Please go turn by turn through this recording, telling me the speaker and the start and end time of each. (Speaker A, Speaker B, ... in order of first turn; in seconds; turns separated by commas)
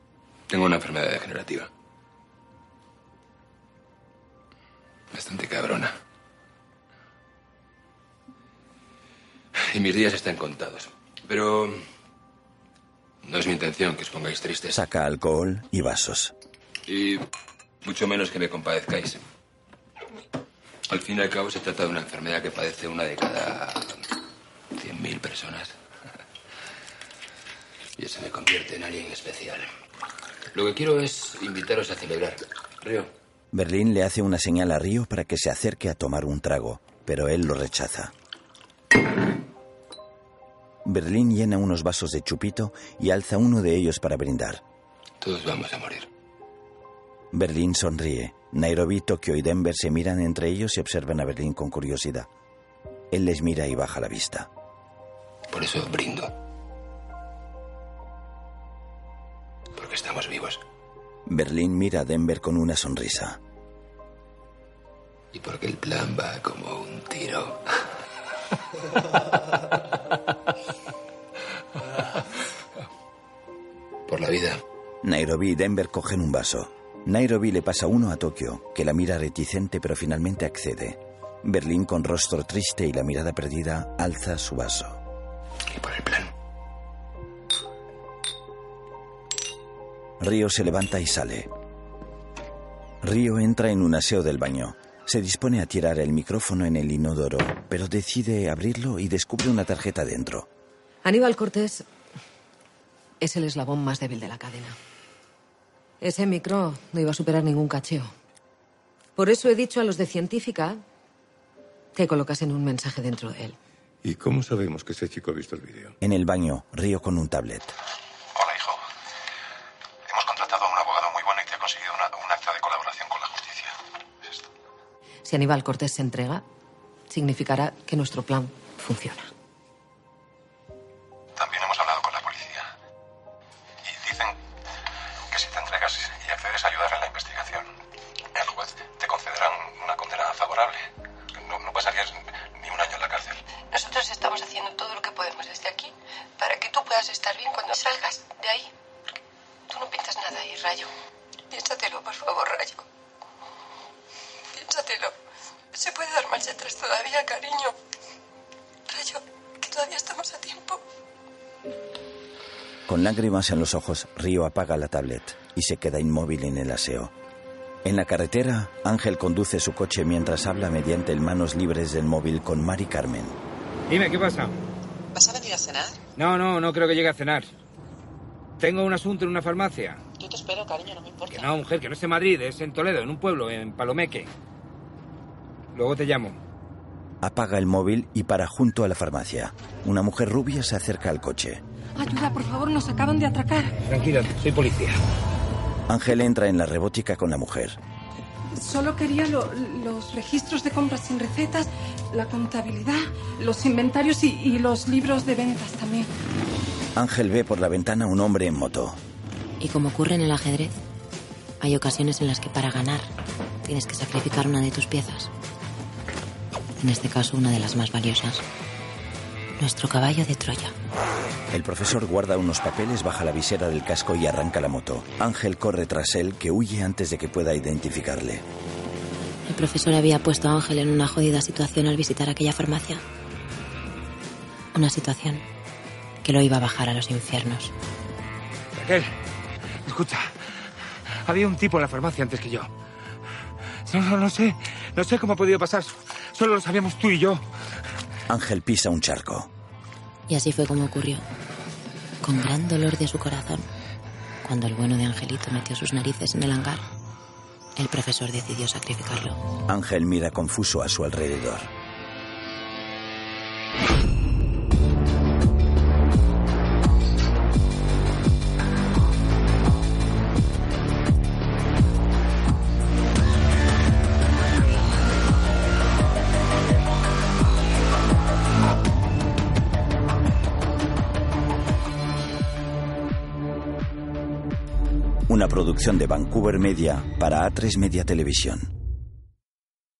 Speaker A: 0.5-1.7, Speaker A: 5.1-6.0, Speaker A: 9.6-11.8, Speaker A: 13.2-14.8, Speaker B: 14.7-16.3, Speaker A: 16.9-17.2, Speaker A: 17.8-19.2, Speaker A: 20.9-24.0, Speaker A: 24.7-25.8, Speaker A: 28.0-29.7, Speaker A: 30.5-33.1, Speaker B: 33.5-38.1, Speaker B: 40.9-44.6, Speaker A: 45.2-46.1, Speaker B: 47.3-52.3, Speaker B: 53.1-54.5, Speaker A: 55.5-56.3, Speaker A: 59.8-60.6, Speaker B: 61.3-63.4, Speaker A: 65.3-67.6, Speaker A: 74.1-74.6, Speaker B: 75.0-85.0, Speaker A: 85.7-86.3, Speaker B: 90.2-91.5, Speaker B: 93.0-100.5, Speaker C: 101.0-101.8, Speaker C: 103.2-104.8, Speaker C: 106.0-108.1, Speaker C: 109.2-110.8, Speaker C: 112.0-113.6, Speaker D: 114.0-116.0, Speaker B: 116.0-117.7, Speaker E: 118.4-118.8, Speaker E: 120.1-123.7, Speaker C: 125.2-126.4, Speaker C: 127.1-129.3, Speaker E: 131.4-132.6, Speaker E: 134.0-134.3, Speaker E: 135.3-137.6, Speaker E: 138.4-140.8, Speaker E: 141.6-142.1, Speaker E: 142.6-143.4, Speaker F: 143.7-148.7, Speaker F: 149.7-150.9, Speaker F: 151.5-152.8, Speaker F: 154.5-155.1, Speaker F: 155.7-157.8, Speaker F: 158.9-160.8, Speaker B: 162.9-167.1, Speaker B: 167.8-173.4, Speaker G: 173.9-174.6, Speaker H: 175.1-176.0, Speaker G: 176.2-177.5, Speaker G: 178.6-180.0, Speaker H: 180.2-181.5, Speaker G: 181.3-184.3, Speaker G: 185.7-186.4, Speaker B: 187.2-191.6, Speaker I: 192.0-193.8, Speaker G: 193.8-195.0, Speaker B: 195.9-197.8, Speaker I: 198.5-206.1, Speaker B: 206.9-209.0, Speaker J: 209.6-210.8, Speaker J: 211.6-213.1, Speaker J: 213.7-215.3, Speaker J: 216.8-218.4, Speaker J: 219.6-220.7, Speaker B: 221.5-228.4, Speaker J: 229.5-233.0, Speaker J: 234.7-235.4, Speaker J: 236.2-237.7, Speaker G: 238.7-239.1, Speaker G: 239.8-242.7, Speaker G: 243.8-247.4, Speaker B: 248.3-249.5, Speaker J: 250.3-251.2, Speaker J: 252.2-253.7, Speaker J: 254.4-256.8, Speaker J: 257.8-259.4, Speaker B: 259.7-261.7, Speaker B: 285.3-288.7